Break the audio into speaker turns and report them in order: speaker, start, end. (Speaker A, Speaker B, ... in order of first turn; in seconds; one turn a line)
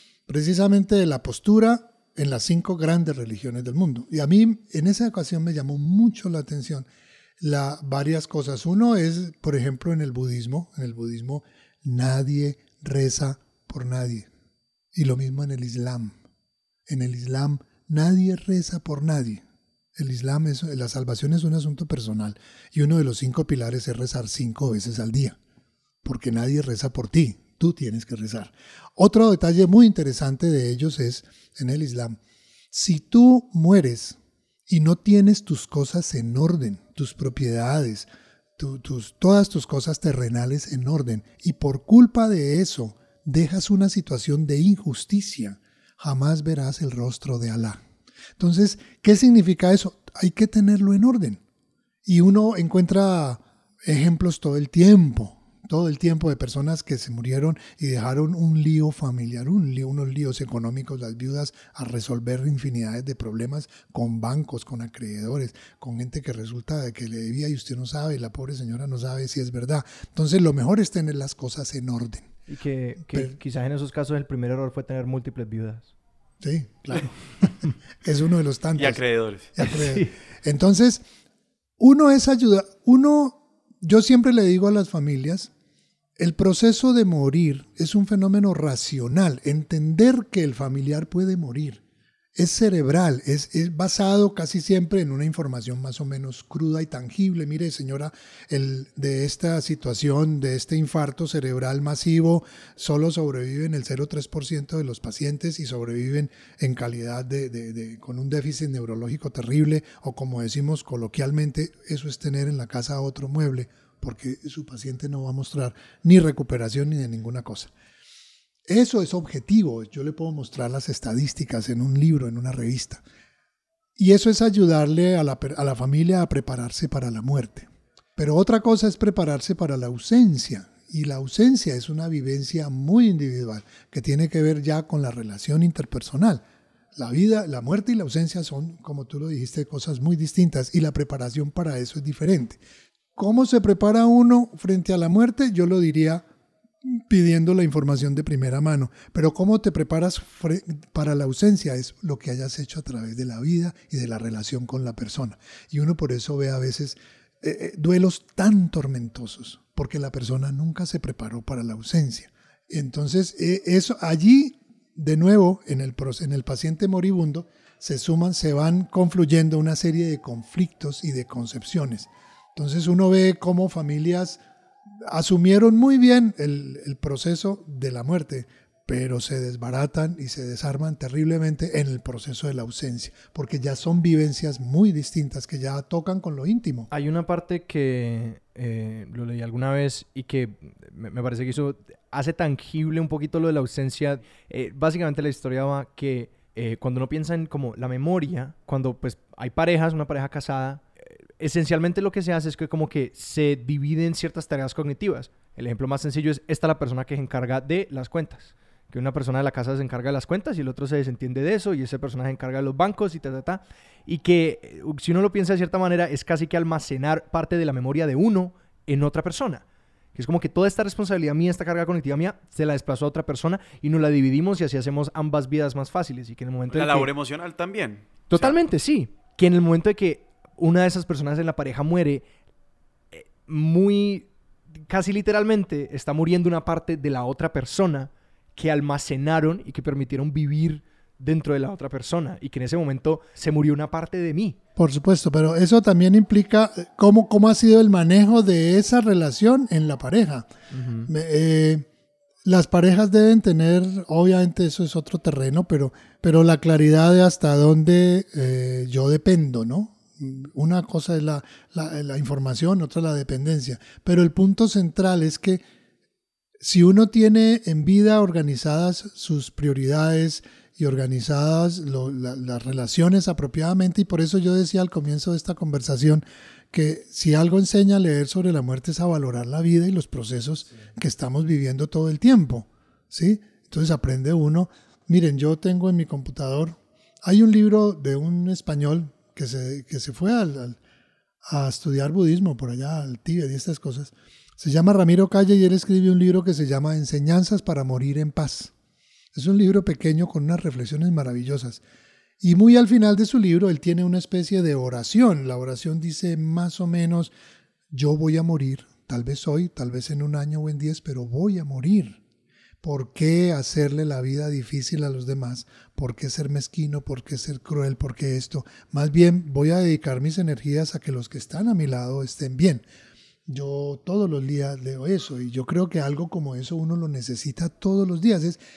Speaker A: 0.3-6.9
Speaker A: 7.4-14.3
Speaker A: 14.9-16.2
Speaker A: 16.9-19.4
Speaker A: 20.0-25.4
Speaker A: 26.0-32.2
Speaker A: 32.7-34.2
Speaker A: 34.7-47.8
Speaker A: 48.4-51.4
Speaker A: 52.0-72.3
Speaker B: 72.5-75.9
Speaker A: 76.4-79.0
Speaker C: 78.8-79.5
Speaker A: 79.5-81.0
Speaker B: 79.6-80.1
Speaker A: 81.8-85.5
Speaker A: 86.2-91.8
Speaker A: 92.4-117.7
Speaker A: 118.7-123.0
Speaker A: 124.0-136.4
Speaker A: 136.9-142.6
Speaker A: 143.2-146.2
Speaker A: 146.8-174.4
Speaker A: 175.1-186.9
Speaker B: 186.9-219.6
Speaker B: 220.2-227.1
Speaker C: 226.7-228.6
Speaker B: 228.3-232.3
Speaker B: 233.1-234.3
Speaker B: 234.8-244.6
Speaker A: 244.8-250.5
Speaker B: 250.7-251.1
Speaker A: 251.1-251.8
Speaker A: 252.4-265.6
Speaker A: 266.6-290.8
Speaker A: 291.4-298.7
Speaker A: 299.3-301.8
Speaker A: 302.4-307.3
Speaker A: 307.9-312.2
Speaker A: 312.8-322.8
Speaker A: 323.5-328.6